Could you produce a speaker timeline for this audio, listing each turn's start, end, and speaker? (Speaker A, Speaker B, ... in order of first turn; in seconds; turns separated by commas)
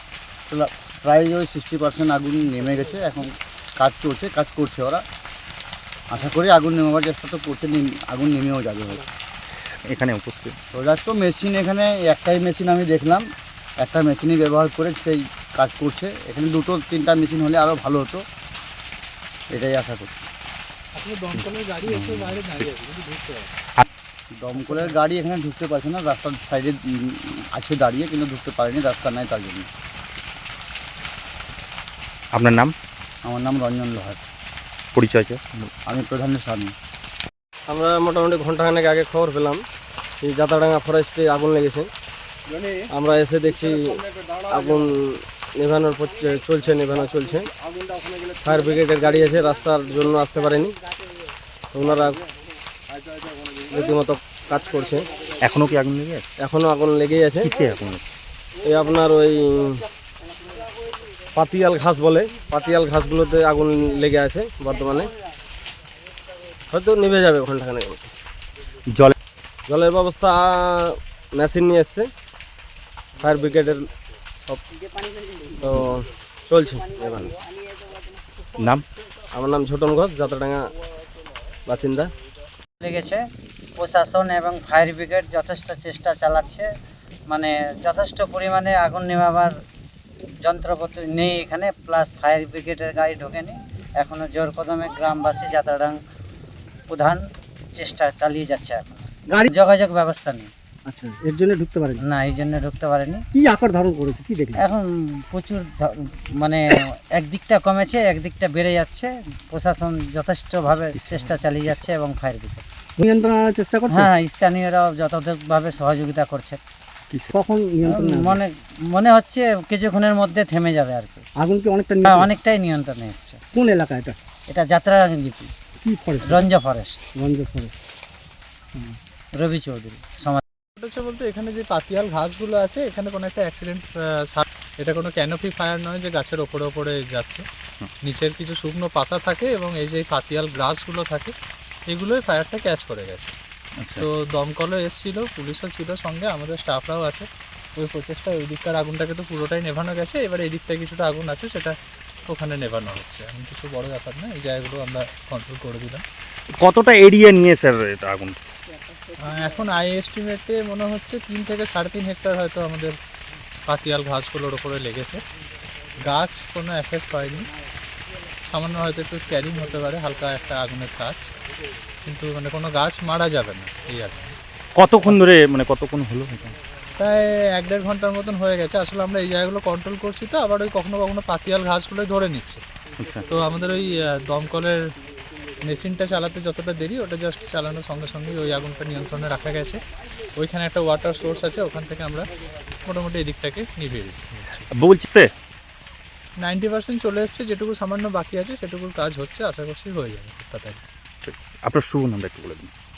Speaker A: 0.5-5.0, Speaker A: 6.1-9.0, Speaker B: 9.9-10.6, Speaker A: 10.7-13.2, Speaker A: 13.8-18.2, Speaker A: 19.5-20.2, Speaker C: 20.9-23.5, Speaker B: 21.9-22.4, Speaker A: 24.3-29.7, Speaker C: 24.6-24.9, Speaker B: 32.3-32.7, Speaker A: 33.2-34.2, Speaker B: 34.9-35.7, Speaker A: 35.9-36.7, Speaker D: 37.7-39.6, Speaker D: 40.2-41.9, Speaker D: 42.9-47.5, Speaker D: 48.4-50.8, Speaker D: 51.7-52.2, Speaker D: 53.7-55.1, Speaker B: 55.4-56.2, Speaker D: 56.4-57.5, Speaker B: 57.4-58.0, Speaker D: 58.6-59.8, Speaker D: 61.3-65.1, Speaker D: 66.7-68.1, Speaker D: 69.7-72.1, Speaker D: 73.2-73.9, Speaker D: 75.6-77.3, Speaker B: 78.6-78.8, Speaker D: 79.3-80.7, Speaker D: 81.7-82.1, Speaker E: 82.8-83.2, Speaker E: 83.8-86.7, Speaker E: 87.3-89.5, Speaker E: 90.4-96.0, Speaker E: 96.9-97.2, Speaker E: 97.8-100.5, Speaker F: 100.8-102.0, Speaker E: 102.0-103.2, Speaker F: 103.3-104.6, Speaker E: 104.6-112.6, Speaker B: 111.0-111.8, Speaker F: 113.0-114.1, Speaker E: 113.9-116.6, Speaker F: 117.3-118.4, Speaker E: 117.8-121.2, Speaker F: 121.3-122.3, Speaker E: 122.0-123.4, Speaker F: 123.5-124.2, Speaker E: 124.5-125.5, Speaker F: 125.8-126.5, Speaker E: 126.2-127.0, Speaker F: 127.1-127.7, Speaker E: 129.3-130.4, Speaker C: 130.8-137.4, Speaker C: 138.0-141.3, Speaker C: 141.9-143.3, Speaker B: 143.8-144.1, Speaker C: 144.0-151.7, Speaker C: 152.3-156.0, Speaker B: 156.6-158.4, Speaker C: 159.2-162.9, Speaker C: 163.7-165.2, Speaker C: 166.0-167.5, Speaker C: 168.5-171.2, Speaker C: 172.1-174.3, Speaker B: 174.7-176.5, Speaker C: 177.0-182.6, Speaker B: 183.0-183.2, Speaker C: 183.3-184.8, Speaker C: 185.6-189.8, Speaker C: 190.4-192.3, Speaker C: 192.8-194.6, Speaker B: 194.7-195.3, Speaker C: 196.4-200.8, Speaker B: 201.2-202.7